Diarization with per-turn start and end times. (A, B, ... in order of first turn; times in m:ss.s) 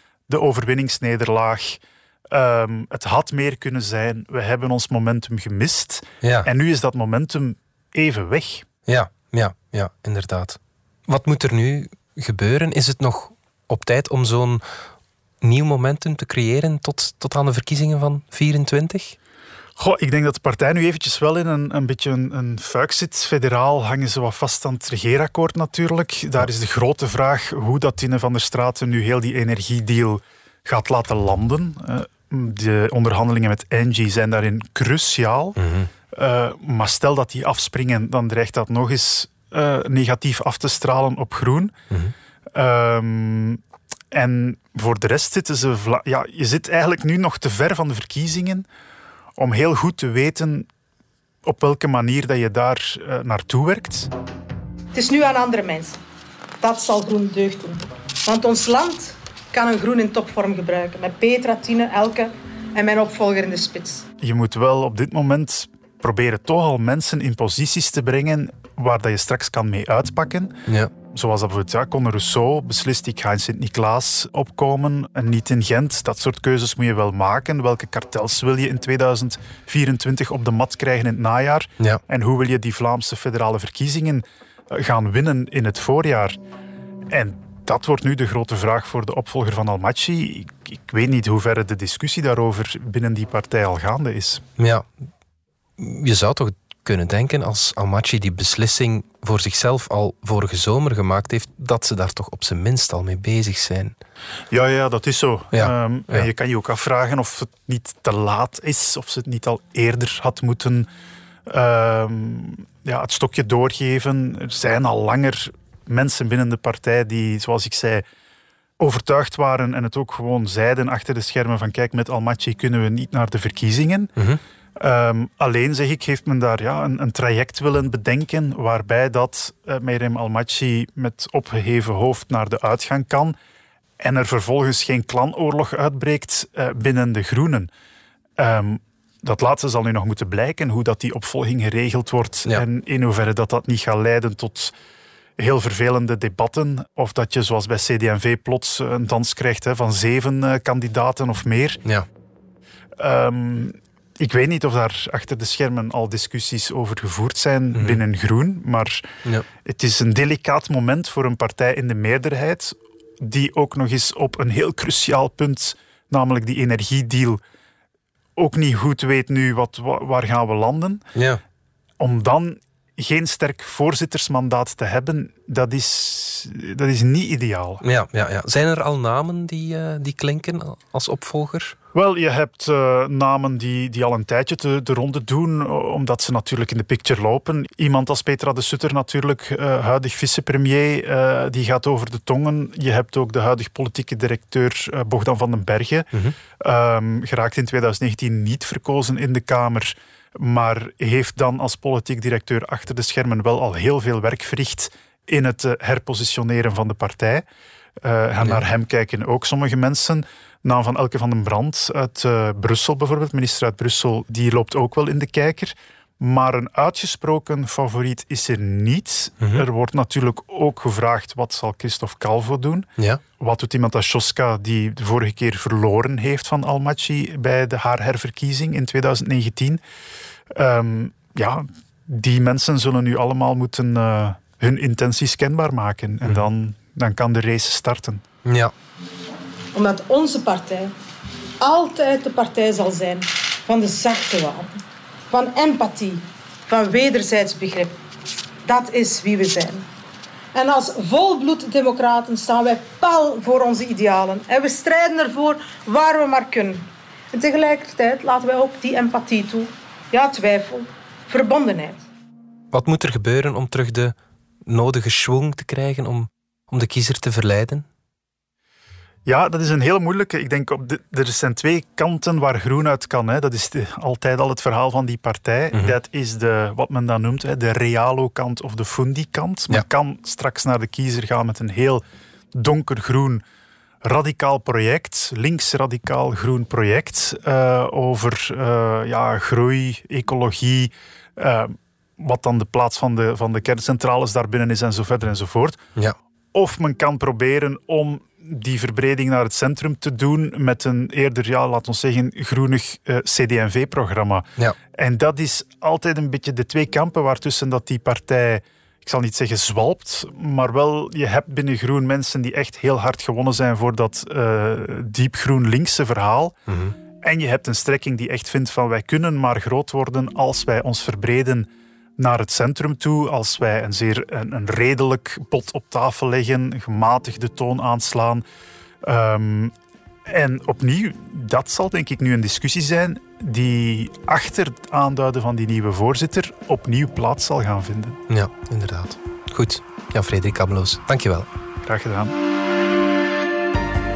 0:00.3-0:08.7 A
0:06.2-0:06.5 B
0:08.9-0:14.6 B
0:15.4-0:19.2 B
0:19.8-0:35.6 A
0:35.6-0:35.9 B
0:36.1-0:41.7 A
0:42.6-0:43.6 A
0:44.1-0:48.6 A
0:49.4-0:50.7 A
0:51.4-0:54.1 A
0:54.9-0:56.0 C
0:56.6-1:04.0 C
1:04.2-1:10.6 A
1:11.1-1:26.4 A
1:27.1-1:34.4 A
1:34.6-1:34.8 B
1:35.8-1:44.0 B
1:44.5-1:50.9 A
1:45.5-1:46.3 B
1:51.5-1:58.0 A
1:58.8-2:04.2 A
2:04.8-2:13.4 A
2:14.0-2:17.7 A
2:18.4-2:24.7 A
2:25.4-2:31.8 A
2:33.0-2:39.1 A
2:37.8-2:38.0 B
2:39.6-2:47.4 A
2:48.4-2:51.0 A
2:51.2-2:51.4 B
2:52.0-2:57.8 A
2:57.8-3:01.8 B
3:01.9-3:16.1 A
3:16.6-3:27.4 A
3:28.0-3:49.8 A
3:50.5-3:58.2 A
3:58.4-3:58.7 B
3:59.7-4:00.9 C
4:01.6-4:08.0 C
4:08.6-4:09.9 C
4:10.5-4:22.0 C
4:22.7-4:24.2 B
4:24.7-4:27.9 B
4:29.3-4:42.0 A
4:42.6-4:43.4 A
4:44.0-4:55.8 A
4:56.5-5:16.6 A
5:16.7-5:17.0 B
5:17.2-5:28.4 A
5:29.0-5:29.7 A
5:30.3-5:38.2 A
5:38.3-5:41.5 B
5:41.8-5:42.3 A